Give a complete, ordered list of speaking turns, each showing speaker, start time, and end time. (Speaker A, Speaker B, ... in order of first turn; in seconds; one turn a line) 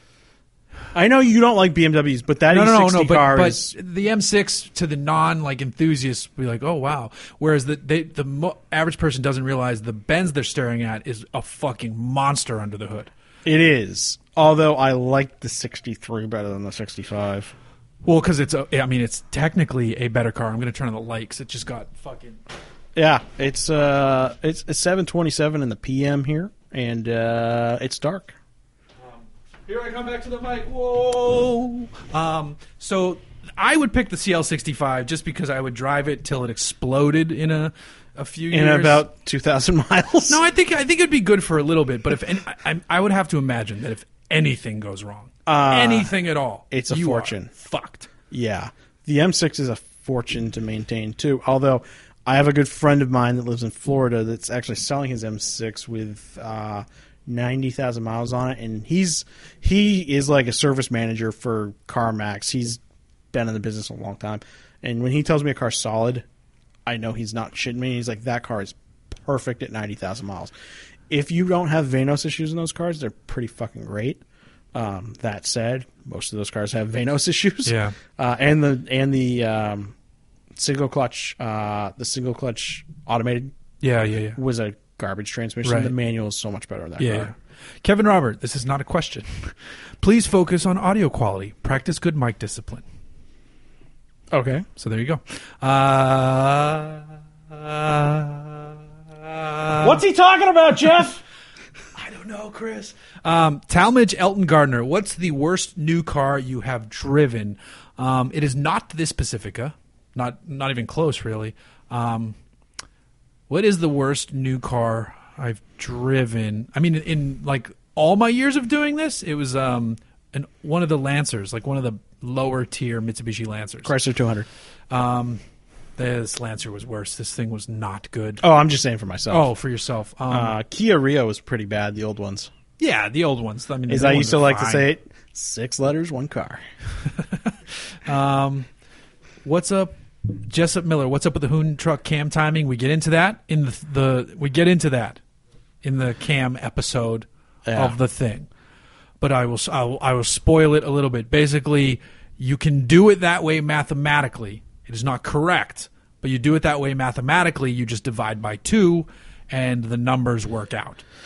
Speaker A: 0.9-3.8
Speaker B: 2.5-13.1
Speaker A: 13.4-17.5
Speaker B: 18.0-22.4
Speaker A: 23.0-28.4
Speaker B: 29.1-39.1
Speaker A: 38.5-40.4
Speaker B: 40.3-48.1
Speaker A: 45.5-46.1
Speaker A: 46.7-47.5
Speaker A: 48.3-62.8
Speaker A: 63.3-66.3
Speaker A: 66.9-70.5
Speaker A: 71.1-74.2
Speaker A: 74.7-80.0
Speaker B: 77.7-78.0
Speaker A: 80.5-83.5
Speaker B: 83.8-84.4
Speaker A: 84.4-87.3
Speaker B: 85.6-85.9
Speaker B: 87.0-92.8
Speaker A: 94.3-94.7
Speaker B: 94.8-100.0
Speaker A: 99.8-101.2
Speaker B: 102.0-112.4
Speaker B: 113.5-123.9
Speaker A: 123.8-124.5
Speaker B: 124.9-125.4
Speaker B: 126.0-128.4
Speaker A: 128.4-129.5
Speaker B: 129.3-130.6
Speaker A: 130.3-132.5
Speaker B: 132.8-134.9
Speaker A: 133.9-136.6
Speaker B: 137.2-138.7
Speaker B: 139.4-145.2
Speaker B: 145.8-148.5
Speaker A: 147.7-148.0
Speaker B: 149.2-161.0